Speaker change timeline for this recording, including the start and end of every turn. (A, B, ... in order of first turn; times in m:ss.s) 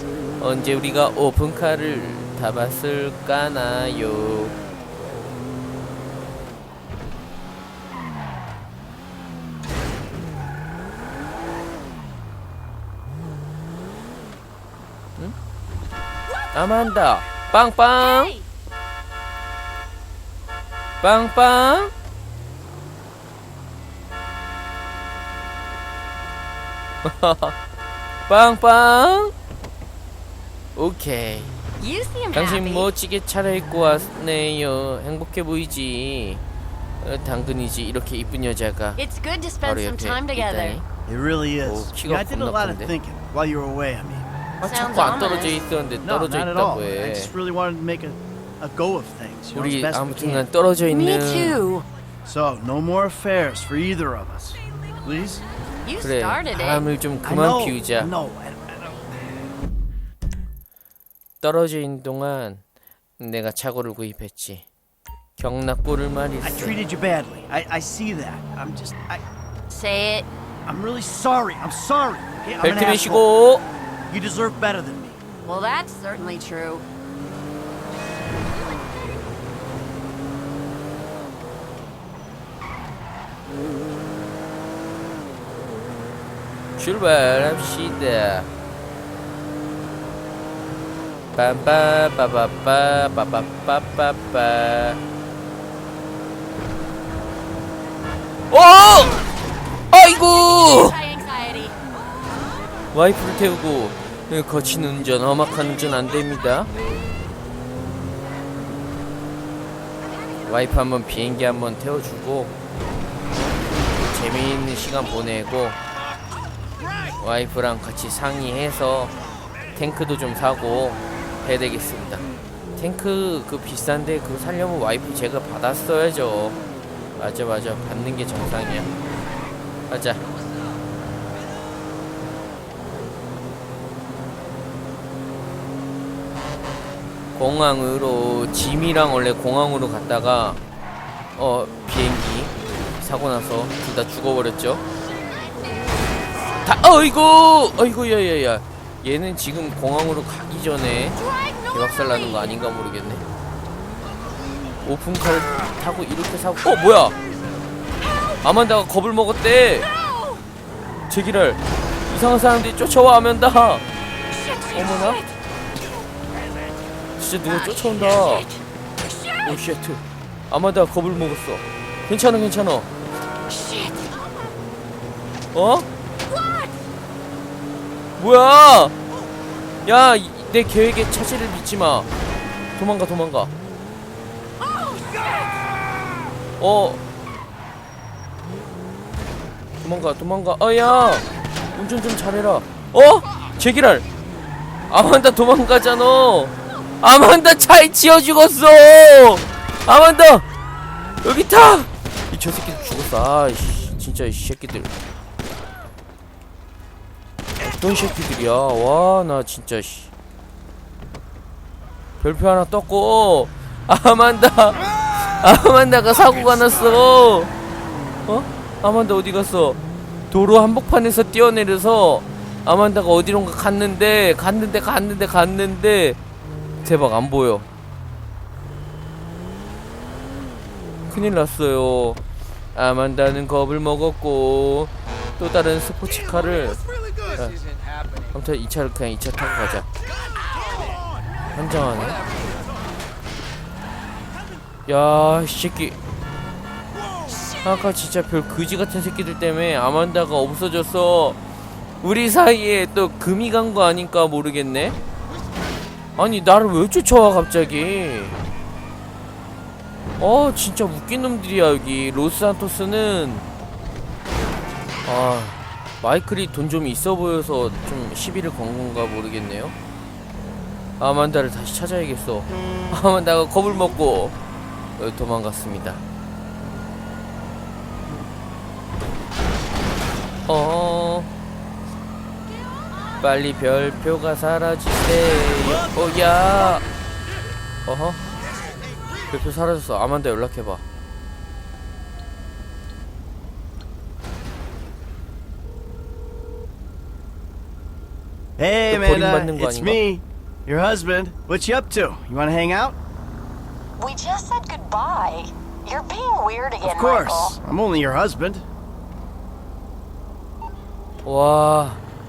0:00.4-0:04.5 A
0:16.5-0:18.3 A
0:18.0-0:18.5 B
0:21.0-0:21.9 A
0:27.0-0:27.5 A
0:28.3-0:29.3 A
0:30.8-0:31.6 A
0:31.8-0:32.9 B
0:32.3-0:36.4 A
0:37.0-0:39.0 A
0:39.0-0:40.8 B
0:39.6-0:40.8 A
0:41.1-0:44.2 C
0:41.6-0:42.9 A
0:44.6-0:47.3 A
0:44.6-0:45.6 B
0:46.0-0:50.5 C
0:49.5-0:51.6 A
0:50.9-0:51.9 B
0:52.2-0:55.4 C
0:55.8-0:56.9 B
0:56.0-0:58.1 A
0:57.2-0:59.1 C
1:01.4-1:02.6 A
1:03.2-1:04.6 A
1:05.4-1:06.8 A
1:06.4-1:09.2 C
1:09.7-1:10.3 B
1:10.6-1:13.3 C
1:12.6-1:13.6 A
1:14.1-1:15.2 C
1:15.4-1:16.8 B
1:26.8-1:28.5 A
1:31.3-1:35.0 A
1:38.5-1:39.2 A
1:39.9-1:41.0 A
1:40.0-1:41.8 B
1:42.9-1:46.7 A
1:50.5-1:52.5 A
1:54.0-1:55.8 A
1:57.2-1:59.1 A
1:59.7-2:02.2 A
2:02.8-2:06.6 A
2:07.2-2:08.9 A
2:09.9-2:10.2 A
2:17.3-2:20.6 A
2:21.4-2:24.8 A
2:26.6-2:33.2 A
2:34.8-2:37.2 A
2:38.4-2:39.9 A
2:39.9-2:40.4 B
2:41.1-2:43.8 A
2:44.3-2:45.2 B
2:44.7-2:45.2 A
2:47.2-2:48.5 A
2:47.8-2:48.5 B
2:49.4-2:52.9 A
2:53.5-2:54.5 B
2:55.5-2:55.9 A
2:56.3-2:56.7 B
2:58.2-2:58.9 A
2:59.8-3:02.1 A
3:02.8-3:03.5 A
3:04.7-3:05.4 B
3:06.6-3:07.0 A
3:09.8-3:14.0 A
3:14.9-3:20.4 A
3:21.2-3:24.9 A
3:27.6-3:30.1 A
3:32.2-3:37.5 A
3:38.3-3:39.8 A
3:40.3-3:46.2 A
3:46.8-3:47.7 A
3:51.1-3:52.2 A
3:52.7-3:57.6 A
3:58.3-3:59.9 A
4:01.5-4:02.2 A
4:04.9-4:06.0 A
4:07.6-4:11.4 A
4:12.0-4:15.0 A
4:16.2-4:18.4 A
4:20.2-4:23.5 A
4:25.0-4:29.7 A
4:31.0-4:34.4 A
4:35.0-4:36.0 A
4:40.5-4:41.3 A
4:43.2-4:46.8 A
4:47.8-4:48.2 A
4:49.3-4:50.8 A
4:58.6-5:03.0 C
4:58.9-5:00.0 A
5:04.0-5:07.6 B
5:06.8-5:08.6 C
5:11.2-5:12.0 A